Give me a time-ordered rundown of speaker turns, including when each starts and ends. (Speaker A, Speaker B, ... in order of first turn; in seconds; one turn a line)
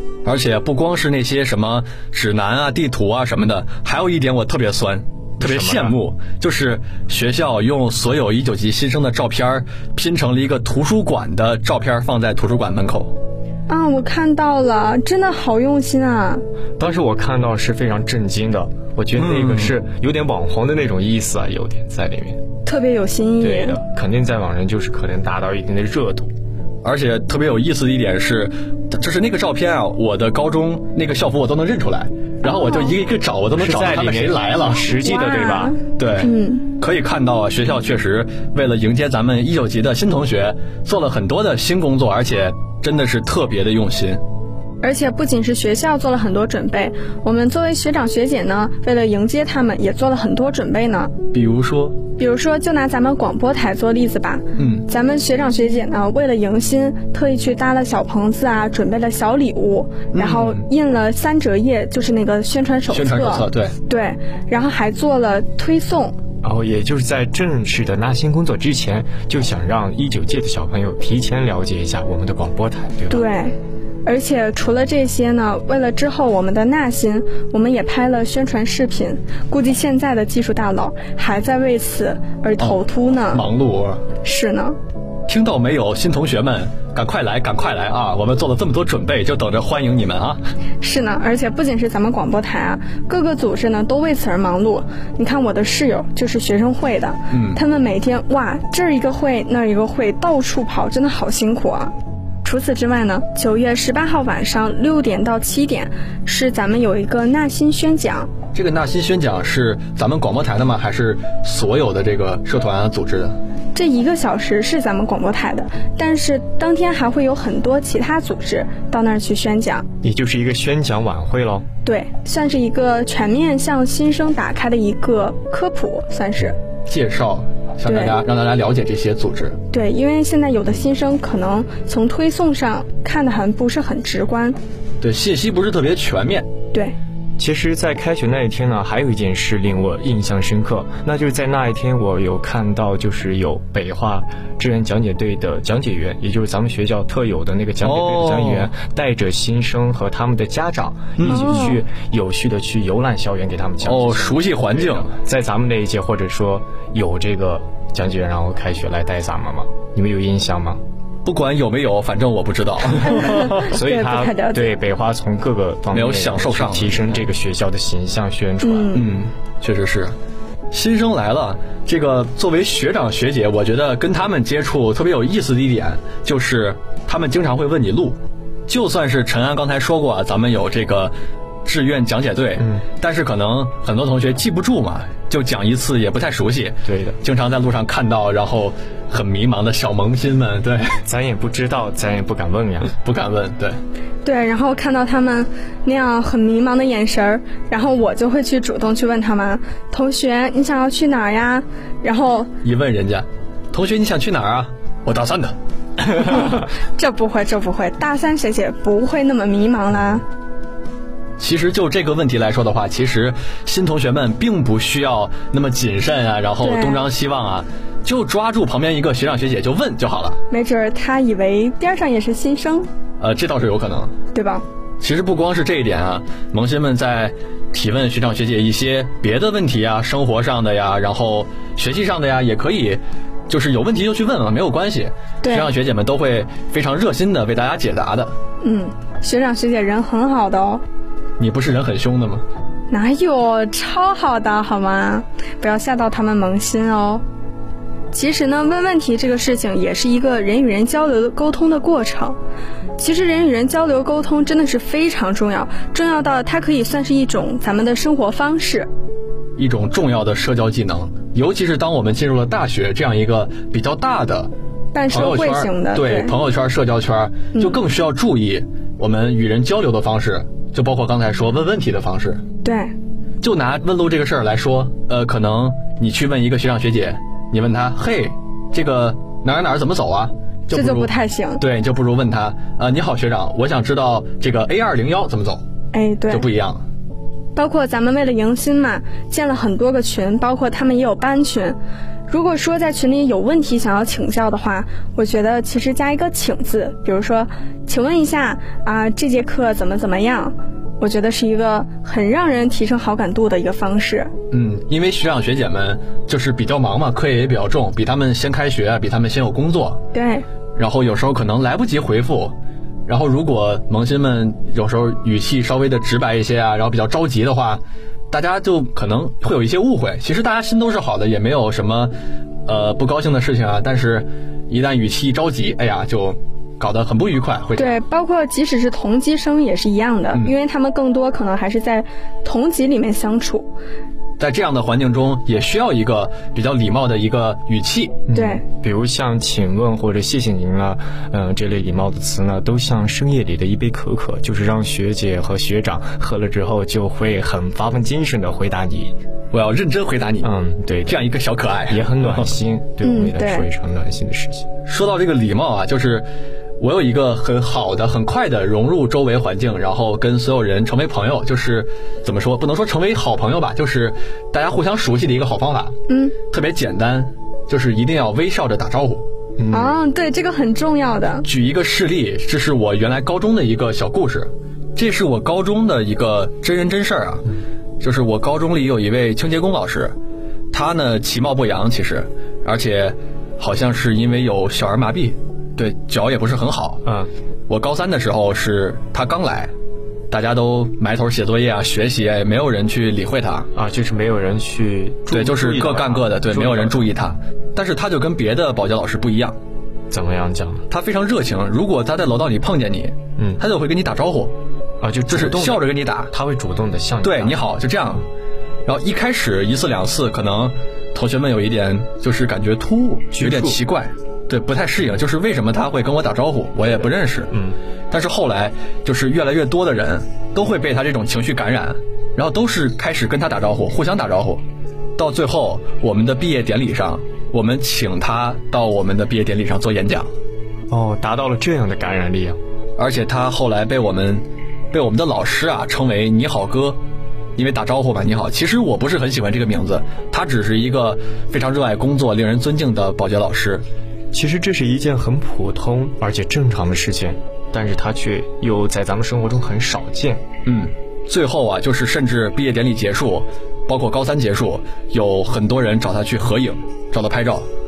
Speaker A: 0.2-13.1
Speaker B: 5.4-6.0
Speaker C: 13.7-16.4
Speaker B: 16.8-22.4
Speaker A: 19.2-19.8
Speaker C: 22.6-23.8
Speaker B: 23.4-26.3
Speaker A: 26.8-34.9
Speaker C: 32.4-32.9
Speaker B: 33.5-35.8
Speaker C: 35.0-36.6
Speaker A: 36.0-44.2
Speaker C: 44.8-51.1
Speaker A: 51.3-52.0
Speaker C: 52.2-66.2
Speaker A: 54.6-54.9
Speaker A: 60.1-60.6
Speaker A: 62.9-63.8
Speaker B: 66.4-73.2
Speaker C: 73.1-83.4
Speaker A: 82.6-84.0
Speaker C: 84.2-84.8
Speaker A: 85.3-90.4
Speaker C: 90.8-101.9
Speaker A: 97.3-97.6
Speaker C: 102.4-108.3
Speaker A: 108.5-113.3
Speaker C: 113.7-119.8
Speaker B: 120.0-121.6
Speaker C: 121.8-126.5
Speaker A: 126.9-129.6
Speaker C: 127.8-128.2
Speaker C: 129.7-134.6
Speaker A: 135.0-136.5
Speaker B: 137.4-160.8
Speaker A: 147.8-148.7
Speaker A: 151.2-151.6
Speaker C: 151.3-151.8
Speaker A: 153.8-155.1
Speaker A: 161.2-163.7
Speaker C: 163.6-164.7
Speaker B: 163.6-169.0
Speaker A: 165.9-167.3
Speaker C: 168.6-169.1
Speaker A: 168.9-170.1
Speaker A: 170.7-181.1
Speaker A: 181.7-191.0
Speaker B: 182.6-182.8
Speaker B: 186.8-187.2
Speaker B: 191.0-192.9
Speaker A: 193.0-193.8
Speaker C: 194.2-202.5
Speaker A: 202.6-205.6
Speaker C: 206.2-210.2
Speaker A: 211.4-220.4
Speaker C: 216.6-217.1
Speaker C: 220.5-222.9
Speaker A: 223.2-224.1
Speaker C: 224.3-224.6
Speaker A: 225.0-238.3
Speaker C: 235.4-235.7
Speaker C: 238.6-240.8
Speaker A: 241.4-242.4
Speaker C: 242.9-247.2
Speaker C: 248.1-252.4
Speaker C: 253.0-258.9
Speaker A: 259.6-264.5
Speaker C: 264.9-266.3
Speaker A: 265.1-272.4
Speaker C: 267.5-267.8
Speaker C: 272.6-272.9
Speaker A: 273.4-285.6
Speaker C: 280.7-281.6
Speaker C: 285.9-286.5
Speaker A: 286.3-286.8
Speaker C: 287.6-291.8
Speaker C: 292.3-304.3
Speaker A: 304.5-310.0
Speaker C: 310.1-310.4
Speaker A: 310.8-312.5
Speaker A: 313.1-322.1
Speaker A: 322.6-328.0
Speaker C: 327.8-333.7
Speaker A: 334.4-338.2
Speaker B: 338.3-349.1
Speaker C: 338.3-338.6
Speaker A: 349.5-350.5
Speaker B: 350.4-351.2
Speaker A: 351.1-352.6
Speaker B: 351.9-354.7
Speaker C: 353.0-353.7
Speaker A: 354.9-356.3
Speaker A: 356.8-365.9
Speaker C: 366.1-366.3
Speaker A: 366.5-369.2
Speaker B: 369.6-370.0
Speaker C: 369.7-371.4
Speaker A: 371.4-377.5
Speaker A: 378.0-380.1
Speaker A: 380.7-387.0
Speaker B: 387.0-387.3
Speaker A: 387.7-389.7
Speaker A: 390.3-393.7
Speaker B: 393.7-397.1
Speaker A: 395.3-399.6
Speaker B: 400.1-400.8
Speaker A: 400.9-404.5
Speaker B: 405.0-407.6
Speaker A: 405.3-406.3
Speaker A: 407.2-408.3
Speaker A: 408.9-417.5
Speaker B: 413.3-413.8
Speaker B: 417.5-417.8
Speaker A: 418.1-424.6
Speaker A: 425.2-430.3
Speaker B: 430.9-432.6
Speaker A: 433.0-437.0
Speaker A: 437.6-443.8
Speaker B: 444.3-450.4
Speaker A: 450.6-457.6